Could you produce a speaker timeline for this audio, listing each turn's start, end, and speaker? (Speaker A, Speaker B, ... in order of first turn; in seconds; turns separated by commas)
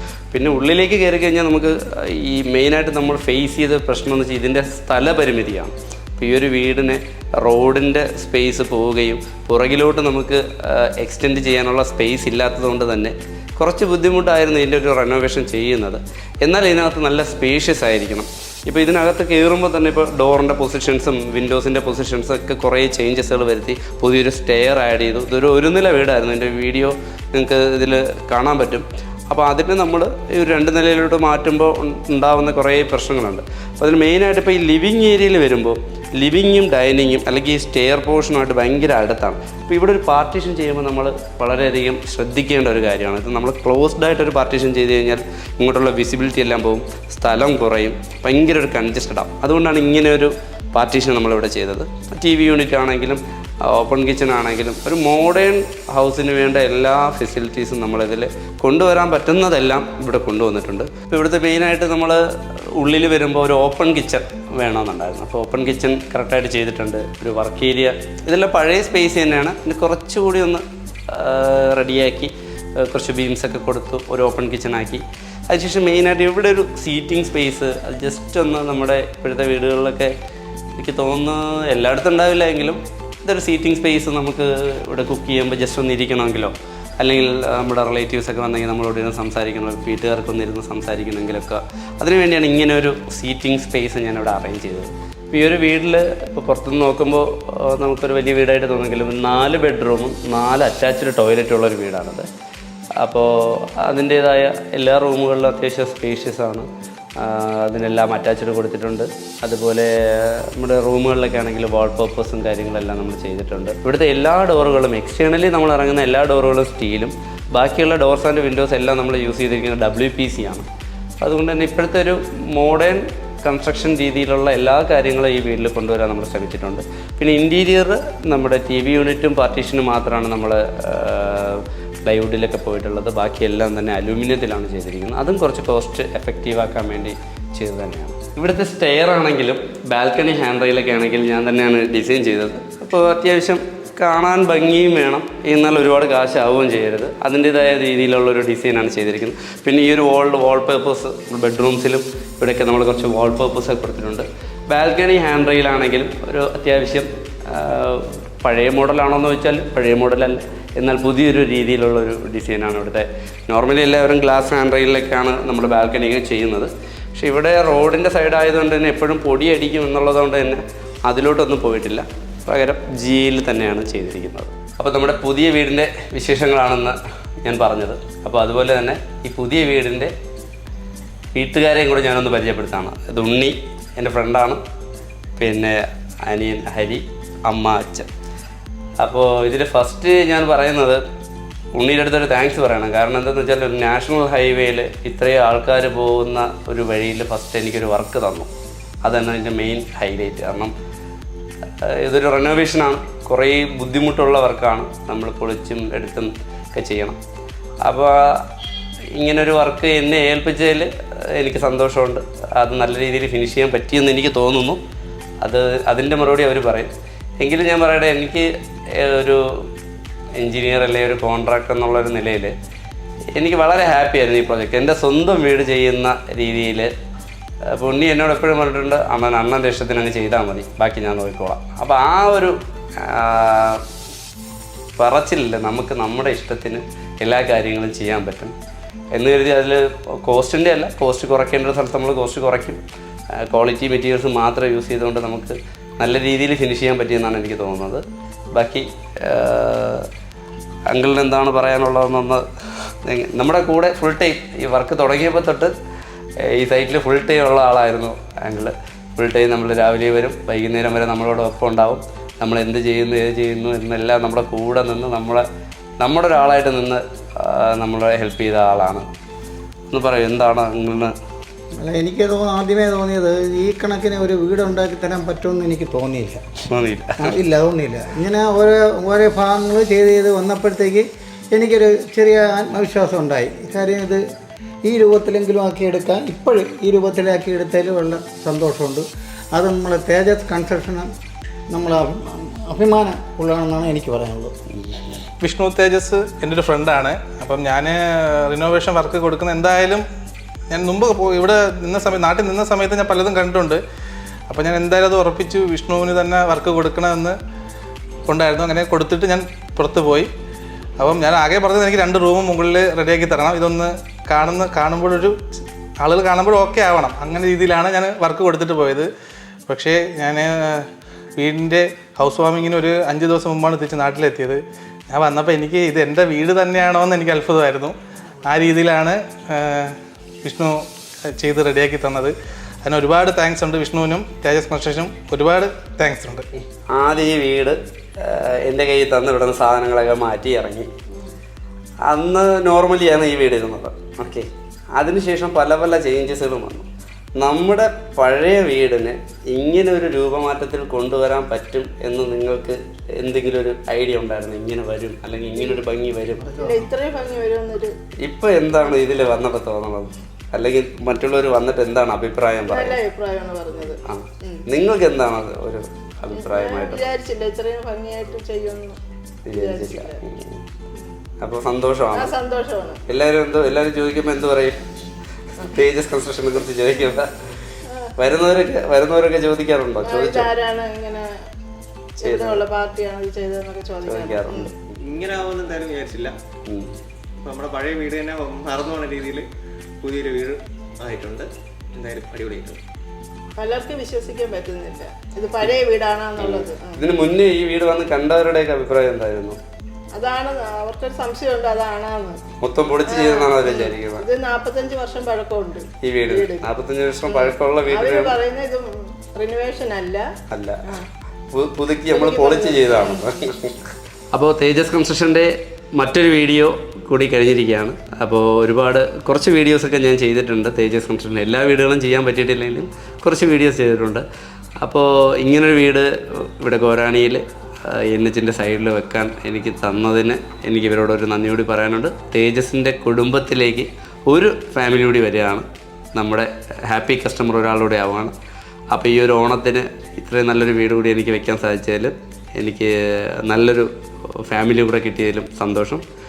Speaker A: 0.3-62.2, Speaker A: 62.8-80.1, Speaker A: 80.8-102.3, Speaker A: 103.0-120.7, Speaker A: 121.2-180.1, Speaker A: 181.3-184.6, Speaker A: 185.4-188.1, Speaker A: 189.0-191.0, Speaker A: 191.7-198.5, Speaker A: 199.0-200.7, Speaker A: 201.8-207.2, Speaker A: 207.8-208.4, Speaker A: 209.2-214.8, Speaker A: 215.4-219.7, Speaker A: 220.4-222.5, Speaker A: 223.3-226.9, Speaker A: 227.7-233.8, Speaker A: 235.0-238.5, Speaker A: 239.1-242.8, Speaker A: 243.4-250.1, Speaker A: 250.9-252.4, Speaker A: 253.1-255.7, Speaker A: 256.4-265.4, Speaker A: 266.0-269.1, Speaker A: 269.9-271.1, Speaker B: 271.8-276.4, Speaker A: 276.7-277.4, Speaker B: 277.2-284.2, Speaker B: 284.9-289.0, Speaker B: 289.6-291.1, Speaker B: 291.7-294.5, Speaker A: 294.8-295.2, Speaker C: 295.4-300.1, Speaker C: 300.7-303.8, Speaker C: 304.5-307.4, Speaker C: 308.3-310.3, Speaker C: 311.0-319.1, Speaker C: 319.7-336.5, Speaker A: 336.9-340.9, Speaker A: 342.1-356.6, Speaker D: 356.6-357.9, Speaker A: 358.2-363.0, Speaker D: 362.7-363.7, Speaker A: 364.1-367.1, Speaker C: 366.6-367.0, Speaker D: 367.0-368.9, Speaker A: 369.4-370.6, Speaker D: 369.6-369.9, Speaker A: 371.4-372.3, Speaker D: 372.1-372.9, Speaker A: 373.1-374.8, Speaker A: 375.6-377.3, Speaker A: 378.2-380.5, Speaker C: 380.1-380.5, Speaker D: 380.6-381.2, Speaker A: 382.2-382.6, Speaker D: 382.3-384.6, Speaker C: 382.4-382.6, Speaker A: 384.0-385.0, Speaker C: 384.1-384.5, Speaker E: 385.0-386.3, Speaker E: 387.4-389.5, Speaker E: 390.0-392.8, Speaker D: 393.6-396.9, Speaker C: 395.2-395.7, Speaker A: 396.4-399.6, Speaker D: 400.1-402.4, Speaker A: 402.6-404.2, Speaker C: 403.2-404.1, Speaker D: 404.2-405.8, Speaker A: 406.0-408.4, Speaker C: 407.4-408.5, Speaker D: 408.4-408.8, Speaker D: 409.4-410.2, Speaker A: 410.5-410.9, Speaker A: 411.5-424.2, Speaker C: 412.1-413.1, Speaker A: 424.8-438.3, Speaker A: 438.9-442.9, Speaker A: 443.4-443.9, Speaker A: 444.4-446.0